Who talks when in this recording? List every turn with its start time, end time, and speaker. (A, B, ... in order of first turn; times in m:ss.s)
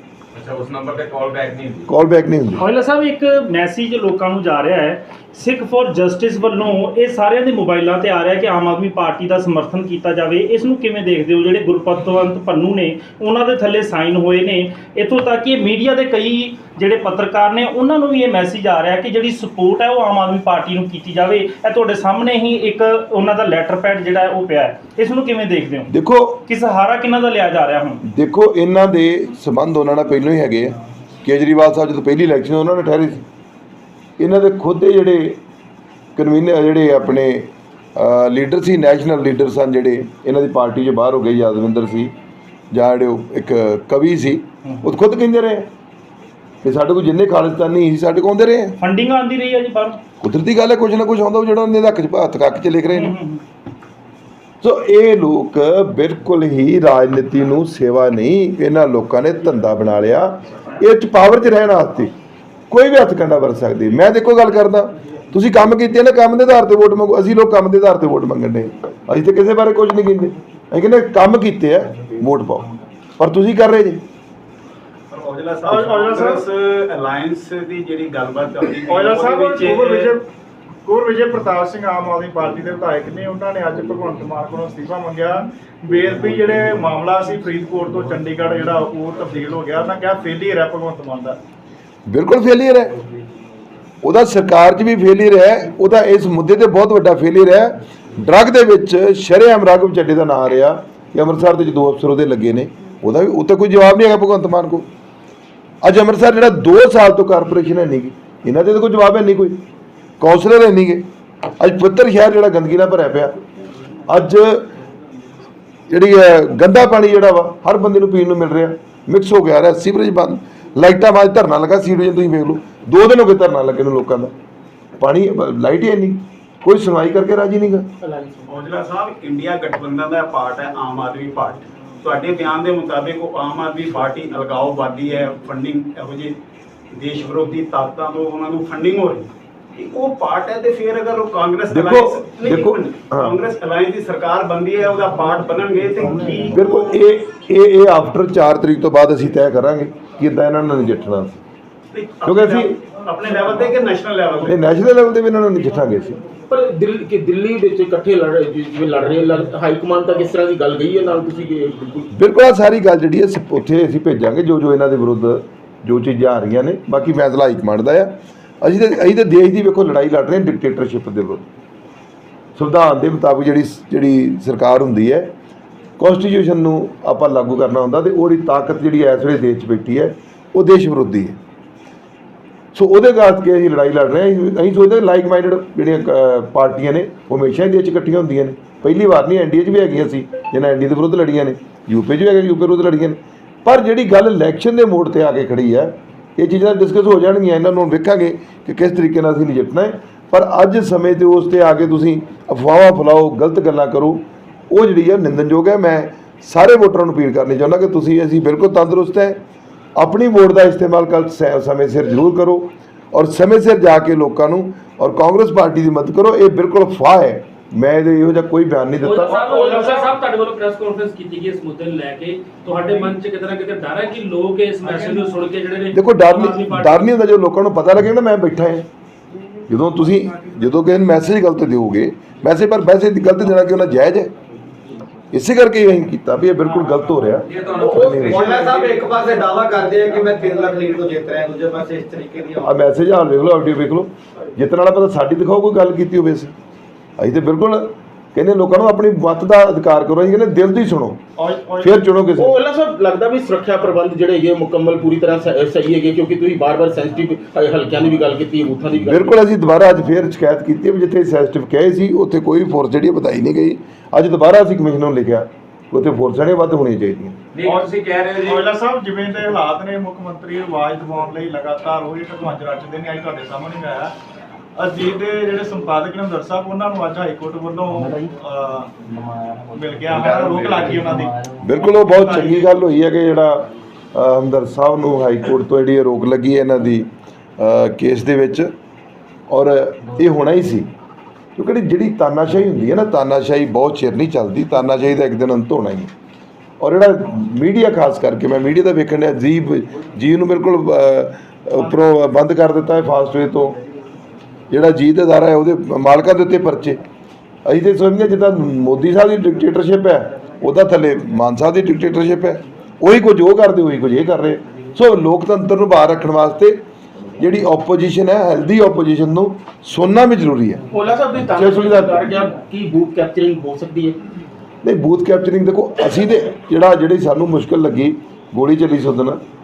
0:00.3-0:01.9 A
0:01.9-0:02.6 B
0:02.6-0:25.9 C
0:25.9-0:26.4 B
0:26.4-0:28.0 C
0:28.1-0:33.2 B
0:34.2-0:35.4 B
0:36.2-0:42.1 B
0:42.7-0:45.7 B
0:46.6-0:48.8 B
0:48.8-0:50.0 C
0:50.2-0:53.1 B
0:52.9-0:53.4 C
0:54.6-1:02.1 B
1:02.7-1:14.0 B
1:15.1-1:20.2 D
1:15.7-1:16.4 E
1:18.9-1:20.2 E
1:20.8-1:31.4 E
1:32.1-1:33.0 B
1:34.0-1:44.9 B
1:45.8-1:49.6 B
1:50.2-1:53.4 B
1:54.1-1:54.7 B
1:55.9-2:04.3 B
2:05.0-2:07.9 B
2:08.0-2:08.4 F
2:08.5-2:16.4 D
2:16.9-2:26.9 D
2:21.7-2:23.4 B
2:26.5-2:31.4 B
2:31.9-2:34.5 D
2:32.2-2:32.8 B
2:34.4-2:36.2 B
2:36.5-2:42.1 F
2:42.1-2:51.4 B
2:52.6-2:55.3 B
2:56.0-3:01.4 B
3:02.7-3:29.4 B
3:30.0-3:39.6 B
3:39.0-3:47.1 G
3:39.4-3:40.1 F
3:45.9-3:48.9 B
3:49.7-3:54.3 B
3:55.3-3:58.6 B
3:56.6-3:57.4 E
3:57.5-3:58.9 A
3:57.7-3:58.4 F
3:58.2-4:02.7 H
4:02.6-4:06.5 B
4:07.2-4:11.2 B
4:11.4-4:12.0 E
4:11.8-4:12.6 B
4:12.4-4:19.4 F
4:19.0-4:27.4 B
4:27.5-4:28.7 G
4:27.6-4:34.1 E
4:34.8-4:38.9 E
4:39.6-4:42.7 E
4:40.1-4:40.8 A
4:41.6-4:48.7 B
4:49.5-4:50.9 B
4:51.6-4:56.1 B
4:56.8-5:03.8 B
5:04.7-5:07.0 B
5:07.6-5:16.8 B
5:17.4-5:20.8 B
5:20.9-5:24.2 F
5:21.5-5:22.3 B
5:24.8-5:29.4 B